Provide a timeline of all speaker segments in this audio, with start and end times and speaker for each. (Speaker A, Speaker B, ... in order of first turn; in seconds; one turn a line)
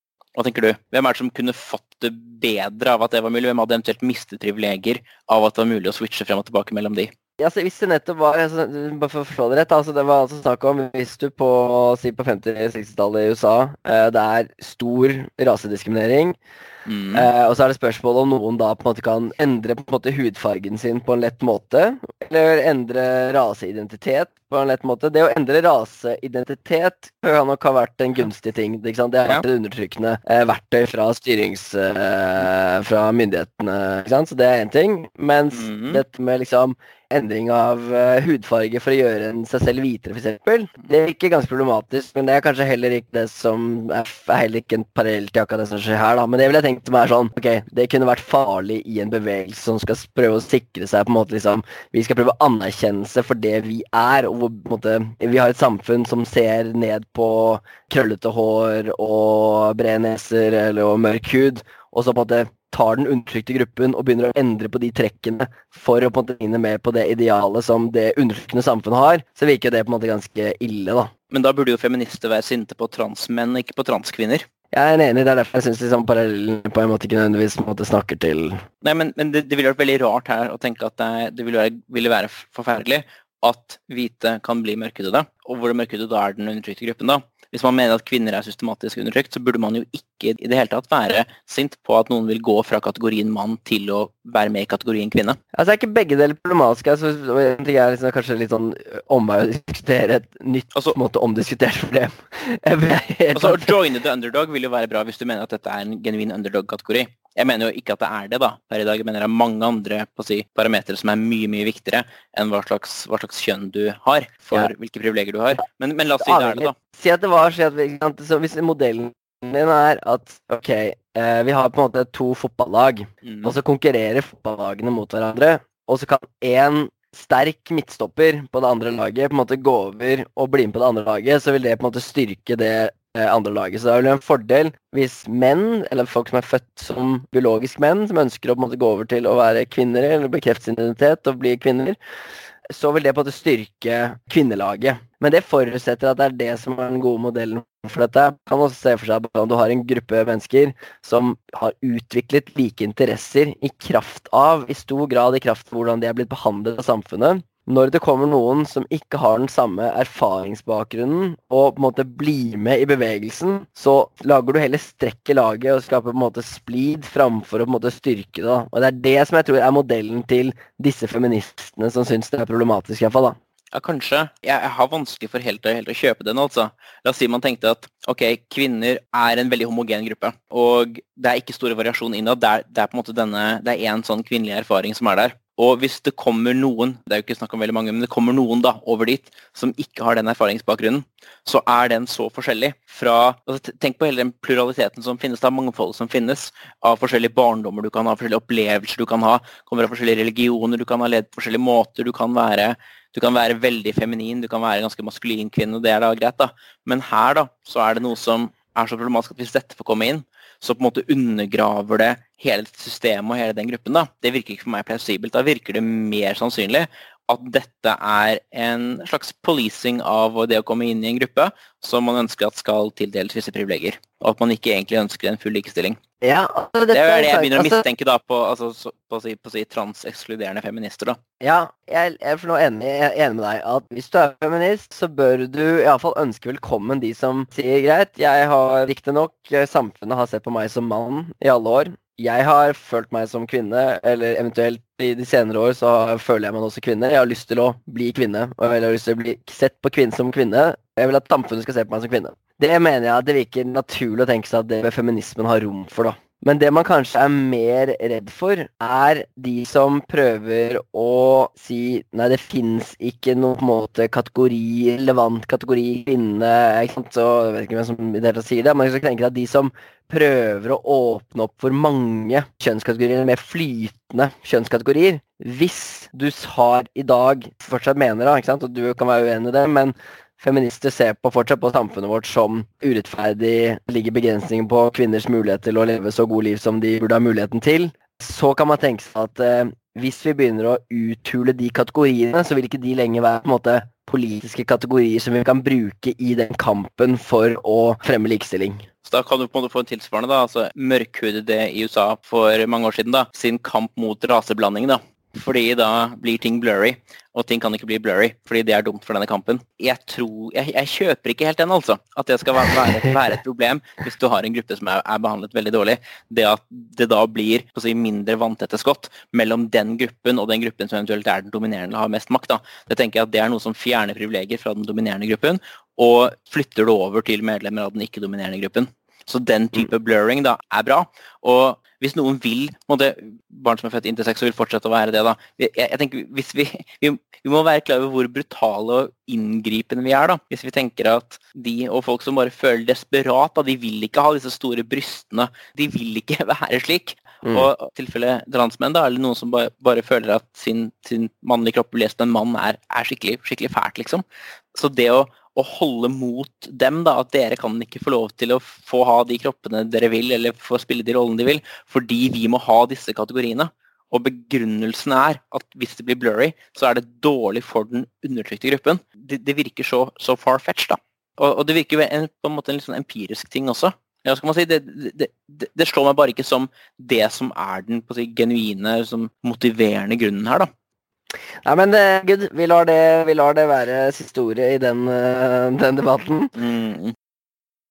Speaker A: 0.3-7.1
Speaker B: 7.4-16.4
Speaker A: 16.9-17.3
Speaker B: 17.1-71.1
Speaker A: 35.5-36.0
Speaker A: 71.3-74.4
Speaker B: 74.7-78.6
Speaker A: 78.8-95.4
Speaker B: 95.5-103.7
Speaker A: 103.3-116.7
Speaker B: 116.2-141.9
Speaker A: 123.2-123.5
Speaker B: 142.7-173.4
Speaker A: 173.7-226.0
Speaker B: 226.2-227.8
Speaker A: 226.9-231.2
Speaker B: 231.4-298.9
Speaker A: 299.0-380.7
Speaker B: 381.6-386.5
Speaker A: 386.5-387.1